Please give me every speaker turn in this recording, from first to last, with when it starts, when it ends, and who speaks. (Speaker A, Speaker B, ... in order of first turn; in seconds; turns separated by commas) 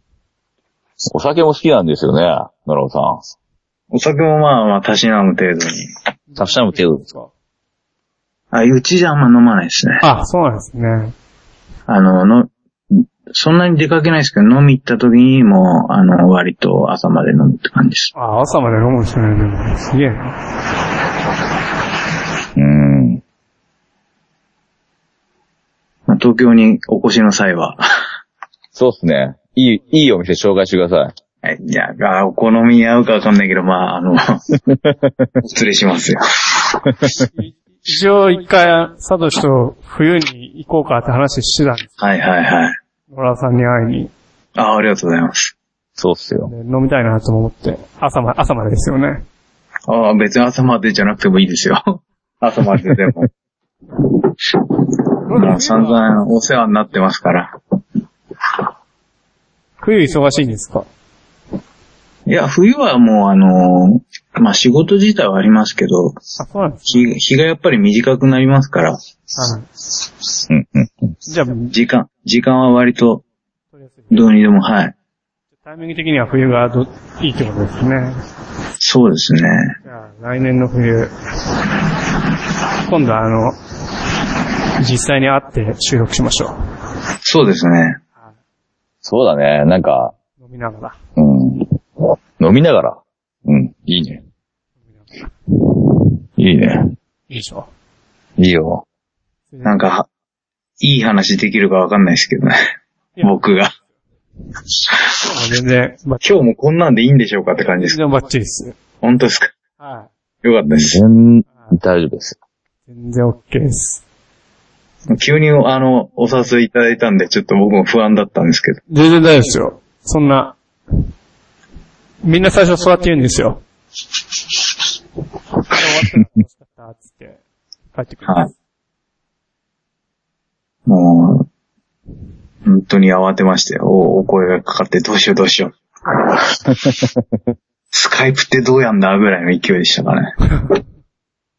Speaker A: 1.1-3.2, Speaker B: 3.9-5.9, Speaker C: 6.3-7.3, Speaker A: 6.4-7.0, Speaker B: 8.5-10.0, Speaker C: 10.0-11.2, Speaker B: 11.9-18.1, Speaker C: 18.1-20.4, Speaker A: 22.6-23.2, Speaker B: 26.1-27.8, Speaker A: 28.8-31.1, Speaker B: 31.4-34.4, Speaker A: 34.7-35.3, Speaker B: 35.4-36.8, Speaker C: 37.3-42.0, Speaker B: 42.0-42.8, Speaker C: 43.1-44.1, Speaker B: 44.6-45.5, Speaker A: 46.0-46.5, Speaker C: 46.5-49.2, Speaker B: 49.9-53.3, Speaker C: 55.3-56.2, Speaker B: 55.3-57.5, Speaker C: 59.8-60.9, Speaker B: 62.3-66.2, Speaker C: 66.4-67.1, Speaker B: 66.9-69.0, Speaker C: 69.4-69.7, Speaker A: 70.5-71.1, Speaker C: 71.3-71.7, Speaker B: 71.7-73.2, Speaker C: 73.8-74.3, Speaker B: 74.1-74.9, Speaker C: 75.6-78.2, Speaker B: 78.8-79.8, Speaker C: 79.8-81.2, Speaker C: 82.8-83.6, Speaker C: 84.8-86.5, Speaker B: 87.2-88.0, Speaker A: 89.0-90.1, Speaker C: 90.4-91.0, Speaker A: 91.2-91.8, Speaker A: 92.4-94.2, Speaker A: 96.4-96.9, Speaker C: 97.3-97.7, Speaker A: 98.4-98.8, Speaker C: 99.5-99.8, Speaker B: 99.6-100.1, Speaker B: 100.8-102.6, Speaker B: 103.2-103.7, Speaker C: 105.2-106.2, Speaker B: 106.2-108.0, Speaker C: 107.6-108.8, Speaker B: 109.0-109.5, Speaker C: 109.8-110.1, Speaker B: 110.4-111.0, Speaker A: 110.7-112.4, Speaker C: 112.9-114.0, Speaker B: 115.1-118.8, Speaker C: 118.9-121.1, Speaker C: 122.2-123.6, Speaker C: 125.6-127.4, Speaker C: 127.9-128.5, Speaker B: 130.9-131.5, Speaker B: 132.7-135.8, Speaker B: 137.9-140.3